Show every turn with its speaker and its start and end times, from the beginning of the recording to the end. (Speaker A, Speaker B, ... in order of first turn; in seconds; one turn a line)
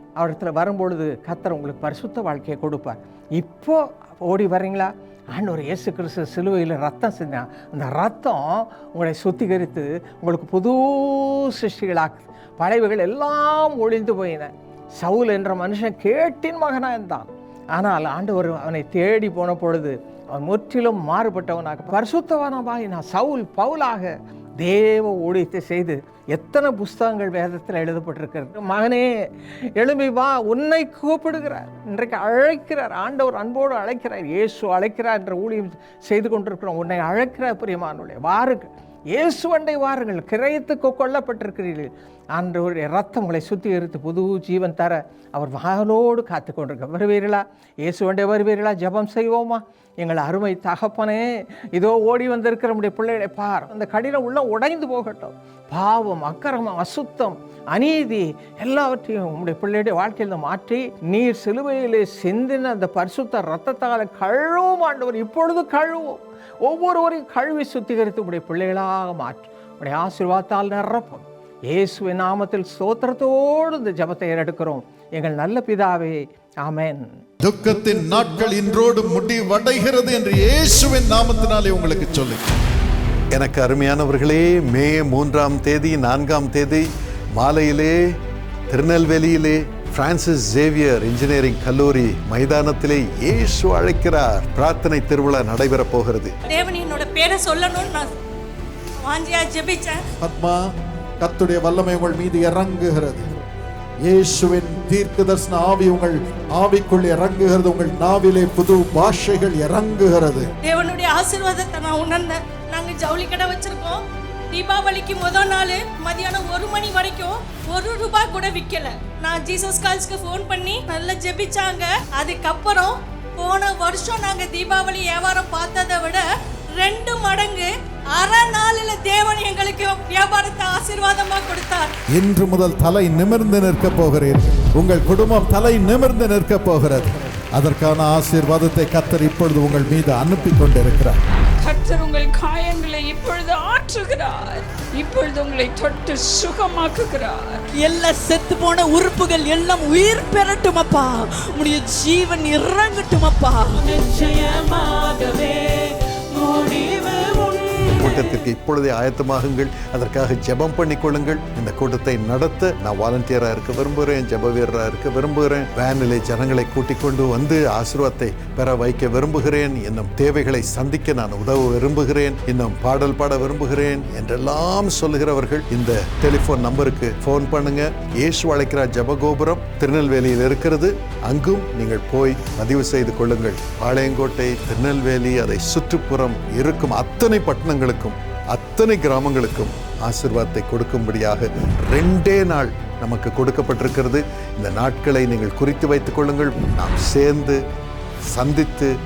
Speaker A: 0.2-77.1
Speaker B: 77.4-82.4
Speaker B: 83.3-88.0
Speaker B: 88.7-96.3
Speaker C: 96.5-98.1
Speaker C: 99.0-100.0
Speaker B: 100.2-100.6
Speaker B: 101.2-103.3
Speaker B: 104.0-110.5
Speaker C: 110.6-126.2
Speaker C: 126.8-131.9
Speaker B: 132.1-141.2
Speaker D: 141.6-147.7
Speaker E: 147.8-158.1
Speaker B: 158.0-197.6
Speaker B: 198.3-198.9